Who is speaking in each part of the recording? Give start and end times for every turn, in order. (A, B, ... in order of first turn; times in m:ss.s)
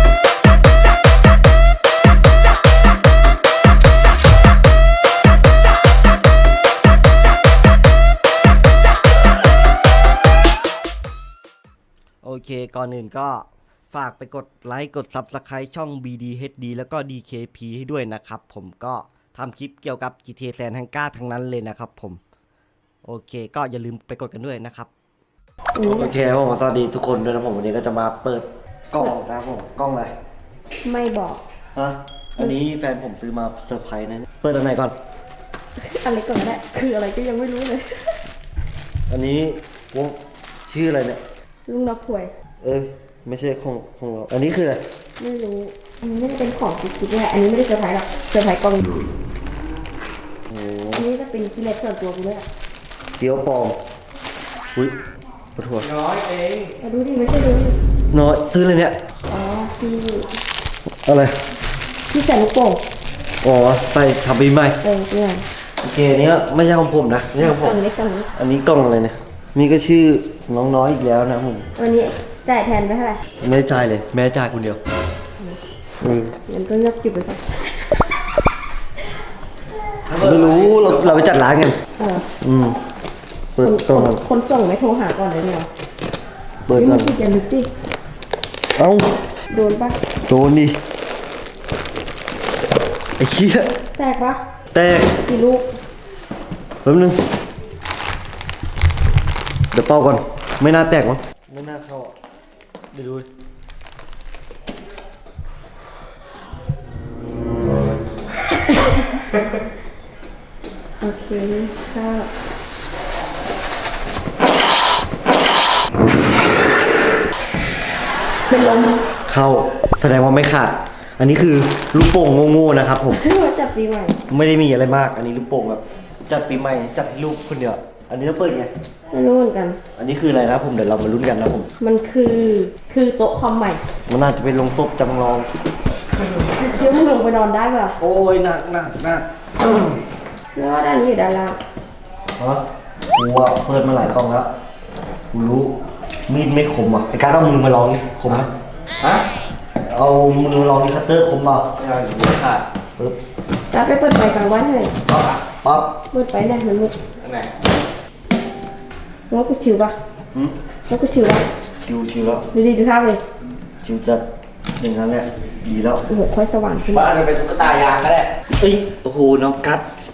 0:12.2-0:22.2 A
0:23.0-0:24.9 A
0:25.8-0:26.1 B
0:25.8-0:30.1 A
0:30.8-0:31.4 B
0:31.8-0:35.0 A
0:35.8-0:38.2 B
0:39.1-0:41.2 A
0:41.7-0:42.3 B
0:42.6-0:44.8 A
0:45.2-0:48.9 B
0:50.5-0:51.0 A
0:51.0-0:52.4 B
0:53.2-0:53.8 A
0:55.6-0:55.9 A
0:55.8-0:56.7 C
0:56.8-0:57.8 B
0:58.1-0:59.0 A
0:59.3-1:00.3 B
1:01.1-1:01.4 A
1:02.1-1:02.8 B
1:03.4-1:04.8 A
1:04.8-1:05.4 B
1:05.8-1:07.8 A
1:07.4-1:08.3 B
1:08.4-1:11.7 A
1:11.8-1:13.2 B
1:13.4-1:14.8 A
1:16.0-1:16.4 A
1:16.5-1:18.0 B
1:20.1-1:21.8 A
1:22.0-1:22.3 B
1:22.4-1:22.8 A
1:23.6-1:24.2 A
1:23.6-1:25.7 B
1:26.7-1:27.1 A
1:26.8-1:27.7 B
1:28.8-1:29.1 A
1:29.5-1:30.0 B
1:30.3-1:30.8 A
1:33.2-1:33.7 A
1:34.0-1:34.4 B
1:34.7-1:35.2 A
1:35.3-1:35.7 B
1:36.8-1:37.2 A
1:39.7-1:42.1 A
1:42.9-1:43.3 A
1:51.0-1:52.3 B
1:58.5-1:59.0 B
1:59.3-2:03.2 A
2:03.1-2:04.2 B
2:04.3-2:08.7 A
2:09.1-2:09.8 B
2:10.0-2:11.7 A
2:11.8-2:13.8 B
2:14.1-2:15.5 A
2:16.6-2:18.0 B
2:18.0-2:20.0 A
2:20.6-2:21.6 B
2:22.4-2:22.6 A
2:23.2-2:24.5 A
2:25.3-2:25.8 A
2:26.3-2:28.5 A
2:29.8-2:31.7 A
2:31.8-2:32.6 C
2:33.7-2:34.9 B
2:35.1-2:35.4 C
2:35.6-2:35.9 A
2:36.1-2:37.0 B
2:37.2-2:37.5 C
2:39.3-2:40.0 B
2:40.9-2:41.5 B
2:41.9-2:42.4 A
2:42.5-2:43.2 B
2:43.8-2:44.2 A
2:44.8-2:46.0 A
2:46.1-2:47.2 B
2:46.9-2:48.3 C
2:48.6-2:49.8 A